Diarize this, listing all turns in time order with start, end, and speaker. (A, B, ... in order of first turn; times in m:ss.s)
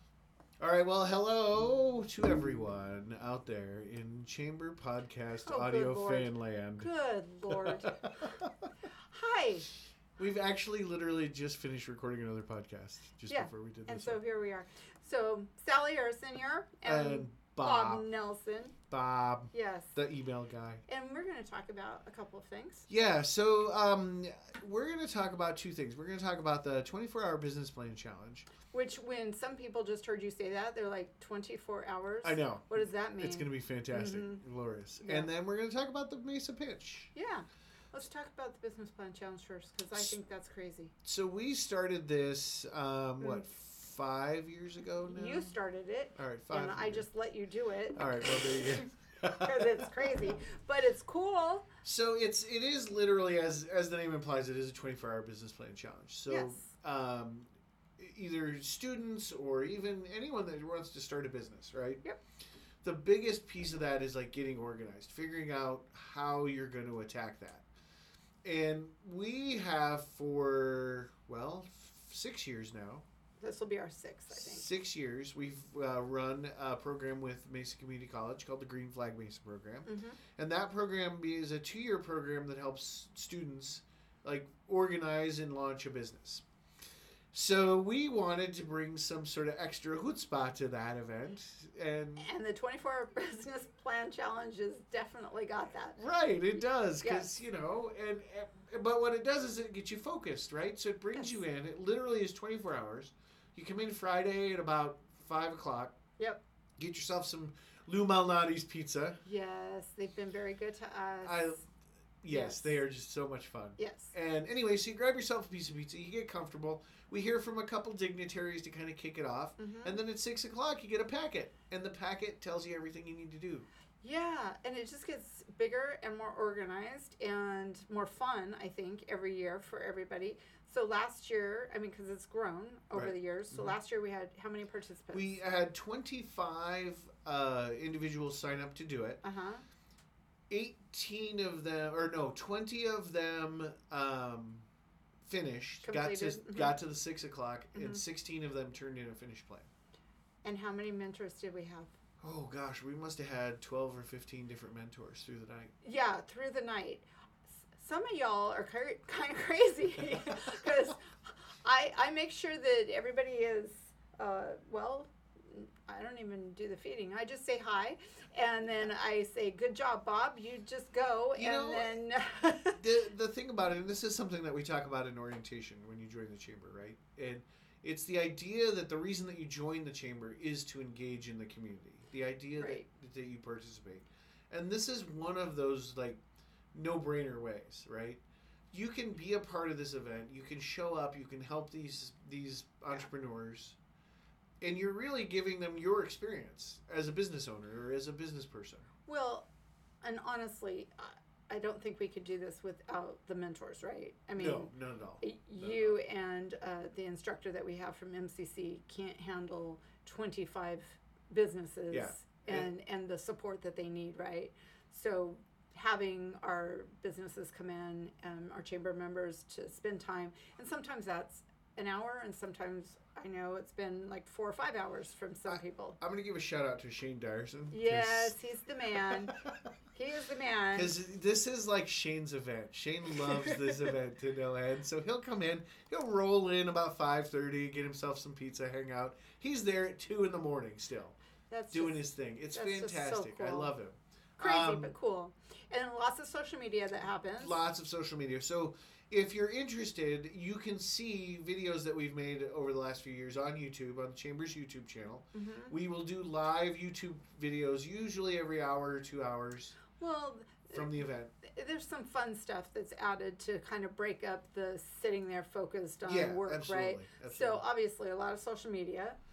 0:00.6-0:06.9 A
0:05.4-0:08.0 B
0:07.5-0:08.5 A
0:09.1-0:09.7 B
0:10.2-0:14.2 A
0:13.3-0:18.8 B
0:16.8-0:18.1 A
0:18.9-0:20.8 A
0:19.5-0:20.0 B
0:20.9-0:22.9 B
0:22.9-0:28.5 A
0:28.7-0:34.4 B
0:32.2-0:37.1 A
0:35.0-0:35.3 B
0:37.1-0:40.9 B
0:41.0-0:45.5 A
0:45.1-0:48.0 B
0:46.2-0:47.1 A
0:48.0-0:50.1 A
0:49.3-0:51.7 B
0:51.8-1:02.0 A
0:56.3-0:56.7 B
1:02.8-1:07.6 A
1:08.4-1:13.0 A
1:13.4-1:14.7 B
1:14.3-1:26.4 A
1:19.9-1:20.2 B
1:27.3-1:32.3 A
1:32.2-1:36.0 B
1:36.0-1:46.0 A
1:37.0-1:37.4 B
1:41.1-1:41.4 B
1:46.8-1:49.2 A
1:49.2-1:51.6 B
1:51.2-1:51.6 A
1:52.2-2:03.7 A
1:52.3-1:52.8 B
1:53.8-1:54.1 B
1:59.6-2:00.0 B
2:04.0-2:15.3 B
2:12.9-2:13.8 A
2:15.1-2:19.2 A
2:19.2-2:19.6 B
2:20.5-2:24.7 A
2:25.2-2:29.7 A
2:25.8-2:26.8 B
2:27.8-2:28.0 B
2:30.4-2:31.9 B
2:32.2-2:35.7 A
2:35.8-2:41.0 B
2:41.6-2:52.8 B
2:51.3-2:52.0 A
2:52.8-3:06.2 A
3:02.6-3:02.8 B
3:06.7-3:13.8 A
3:14.6-3:18.9 A
3:19.1-3:19.5 B
3:20.0-3:46.0 B
3:24.4-3:26.0 A
3:31.9-3:32.7 A
3:45.5-3:48.4 A
3:47.7-3:49.3 B
3:49.9-3:51.0 B
3:50.7-4:01.2 A
4:01.5-4:03.8 B
4:01.7-4:04.9 A
4:04.4-4:07.6 B
4:07.4-4:19.8 A
4:15.3-4:15.8 B
4:20.0-4:29.2 B
4:20.7-4:21.3 A
4:26.0-4:27.6 A